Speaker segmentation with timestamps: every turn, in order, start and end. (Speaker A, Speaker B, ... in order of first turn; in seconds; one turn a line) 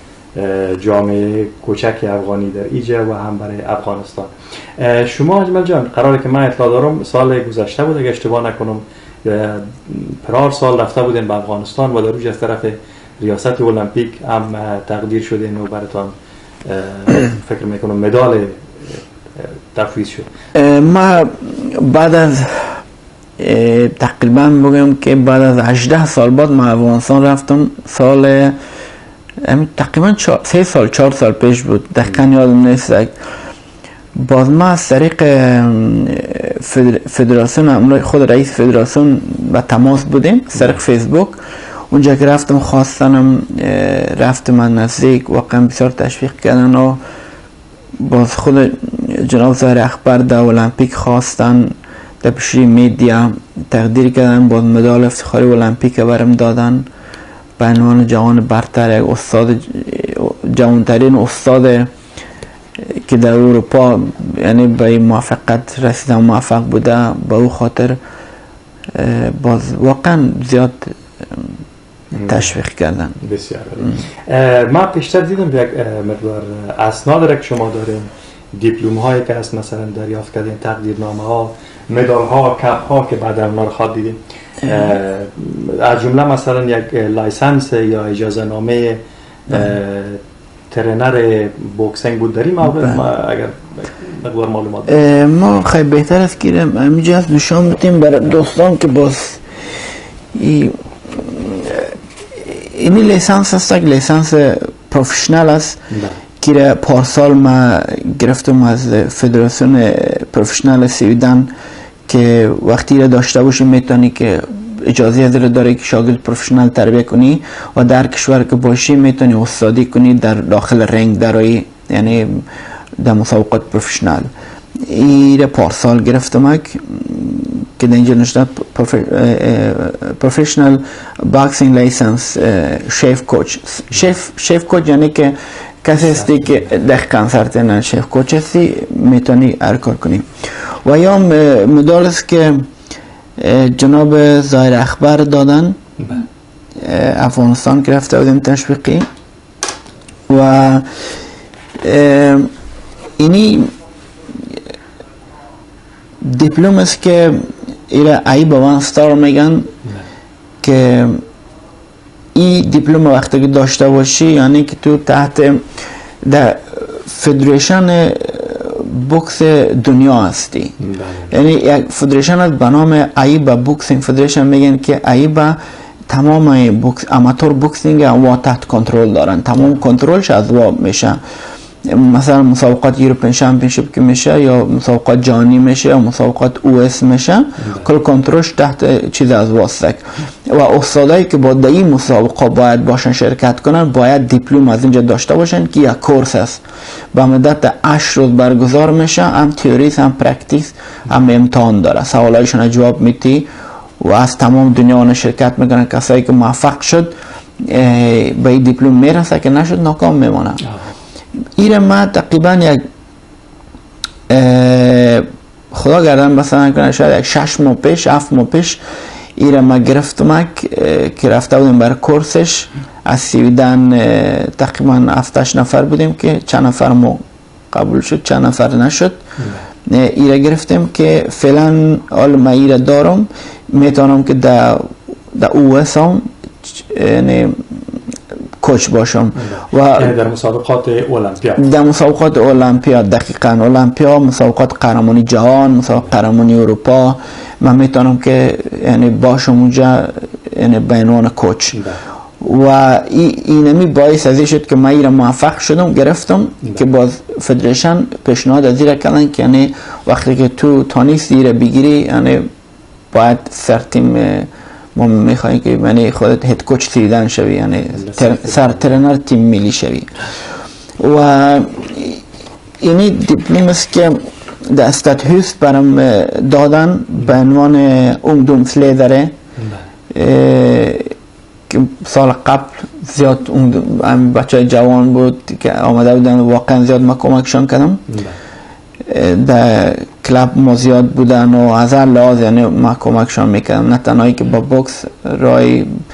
Speaker A: 0.4-16.1
Speaker A: 16.6-20.3
Speaker B: 20.6-22.8
Speaker B: 23.4-28.6
Speaker B: 29.4-33.1
Speaker B: 34.1-41.4
Speaker B: 41.9-47.0
Speaker B: 48.0-56.9
Speaker B: 57.6-61.9
Speaker B: 62.9-68.0
Speaker B: 68.9-71.6
Speaker A: 72.1-72.5
Speaker B: 72.1-73.2
Speaker A: 73.2-90.2
Speaker A: 90.7-95.1
Speaker B: 94.9-99.4
Speaker B: 100.3-105.8
Speaker A: 105.9-106.2
Speaker B: 106.4-111.5
Speaker B: 112.1-122.5
Speaker B: 123.0-124.3
Speaker B: 124.8-140.3
Speaker A: 136.0-136.7
Speaker B: 140.8-142.6
Speaker B: 143.4-145.8
Speaker A: 146.0-146.2
Speaker B: 146.8-149.1
Speaker B: 150.3-150.9
Speaker B: 151.8-152.5
Speaker B: 153.2-153.7
Speaker B: 156.2-159.7
Speaker B: 160.6-161.2
Speaker B: 162.3-165.6
Speaker B: 166.2-170.8
Speaker A: 170.8-171.3
Speaker B: 171.3-181.2
Speaker B: 181.9-196.6
Speaker A: 187.6-187.9
Speaker B: 197.1-203.5
Speaker B: 204.0-210.6
Speaker A: 210.6-210.9
Speaker B: 211.6-212.8
Speaker B: 214.3-218.8
Speaker B: 219.4-227.2
Speaker B: 227.7-229.2
Speaker A: 229.4-229.7
Speaker B: 229.9-236.2
Speaker B: 236.8-237.6
Speaker B: 238.6-240.1
Speaker A: 239.4-241.7
Speaker B: 241.6-251.8
Speaker A: 251.7-252.0
Speaker B: 252.4-262.5
Speaker B: 263.1-270.1
Speaker A: 267.9-268.9
Speaker B: 271.0-272.2
Speaker B: 272.8-279.3
Speaker A: 279.6-279.9
Speaker B: 280.1-281.1
Speaker B: 281.7-288.0
Speaker A: 288.1-288.4
Speaker B: 289.1-295.9